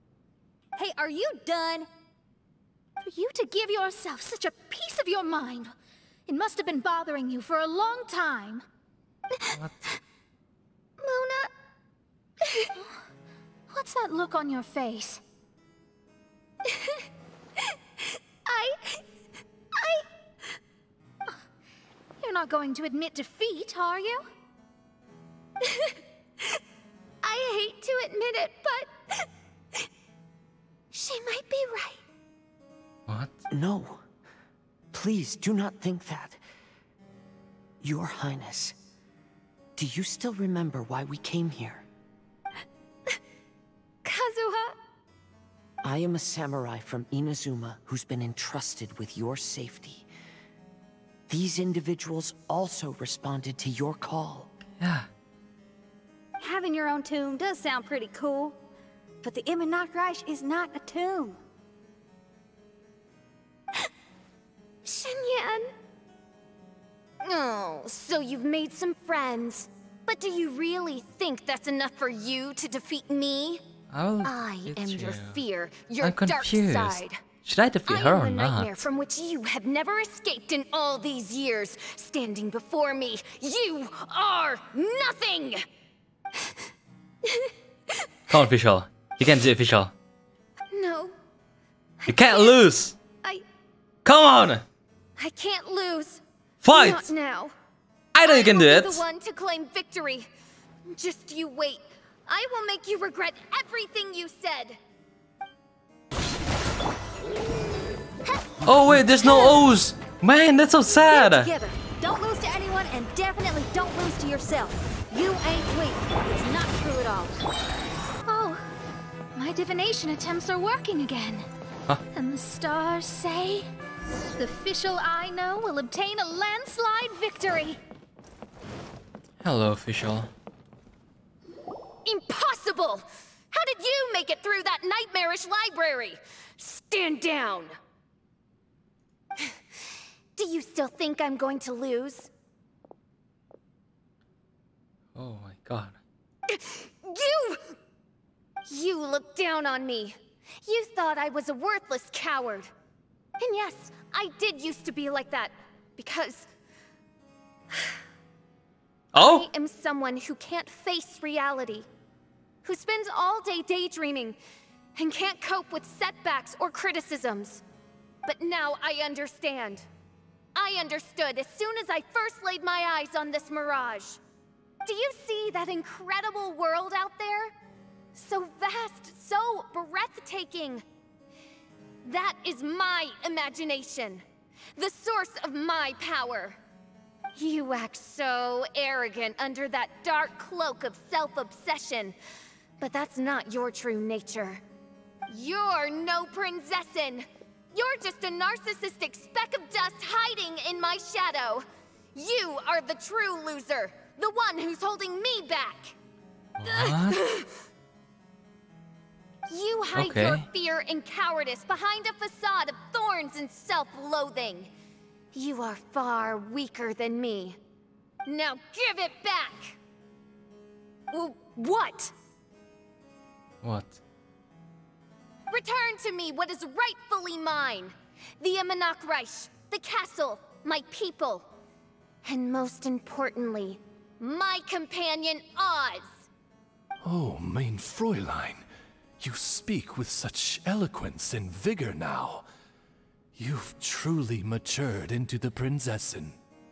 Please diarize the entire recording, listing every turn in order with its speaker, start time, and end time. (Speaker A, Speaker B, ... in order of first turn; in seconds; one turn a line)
Speaker A: 0.8-1.9
Speaker B: 3.0-5.7
Speaker B: 6.3-8.7
Speaker C: 11.0-11.5
Speaker C: 12.4-12.7
Speaker B: 13.7-15.2
Speaker C: 16.7-17.0
Speaker C: 18.5-19.1
Speaker C: 19.7-20.1
Speaker B: 22.2-24.3
Speaker C: 25.6-26.0
Speaker C: 27.2-29.3
Speaker C: 30.9-32.0
Speaker D: 33.1-33.3
Speaker E: 33.5-34.0
Speaker E: 34.9-36.4
Speaker E: 37.8-38.8
Speaker E: 39.8-41.9
Speaker C: 44.0-44.8
Speaker E: 45.8-50.1
Speaker E: 51.3-54.5
Speaker D: 54.8-55.1
Speaker A: 56.4-58.6
Speaker A: 59.2-61.4
Speaker C: 64.8-65.7
Speaker C: 67.2-73.6
Speaker D: 73.9-75.4
Speaker C: 74.2-77.2
Speaker D: 76.0-78.8
Speaker C: 77.9-85.6
Speaker C: 87.2-88.1
Speaker D: 88.3-89.9
Speaker C: 90.7-91.2
Speaker C: 92.0-92.6
Speaker D: 92.1-93.0
Speaker D: 94.0-94.6
Speaker C: 95.2-97.5
Speaker D: 96.6-97.1
Speaker D: 98.1-99.0
Speaker C: 98.2-100.3
Speaker C: 100.9-104.8
Speaker D: 108.7-111.5
Speaker A: 111.1-117.4
Speaker B: 118.3-118.7
Speaker B: 119.3-121.5
Speaker B: 122.1-123.7
Speaker B: 124.4-127.8
Speaker D: 129.4-130.3
Speaker C: 132.1-137.7
Speaker C: 140.4-142.3
Speaker D: 145.2-146.0
Speaker C: 146.5-147.8
Speaker C: 148.7-152.7
Speaker C: 153.4-156.5
Speaker D: 159.1-159.5
Speaker C: 159.1-161.9
Speaker C: 162.6-164.4
Speaker C: 165.0-167.6
Speaker C: 168.2-169.9
Speaker C: 170.6-174.2
Speaker C: 174.8-177.5
Speaker C: 178.1-180.8
Speaker C: 182.0-184.2
Speaker C: 184.8-186.6
Speaker C: 187.3-192.2
Speaker C: 192.8-194.6
Speaker C: 195.3-205.9
Speaker D: 206.6-207.2
Speaker C: 206.7-207.5
Speaker C: 209.5-214.7
Speaker D: 209.9-210.5
Speaker C: 215.3-217.6
Speaker C: 218.3-219.8
Speaker C: 221.1-222.1
Speaker D: 223.6-224.0
Speaker C: 225.5-231.5
Speaker C: 232.2-236.3
Speaker F: 237.0-238.6
Speaker F: 239.2-242.5
Speaker F: 243.4-246.4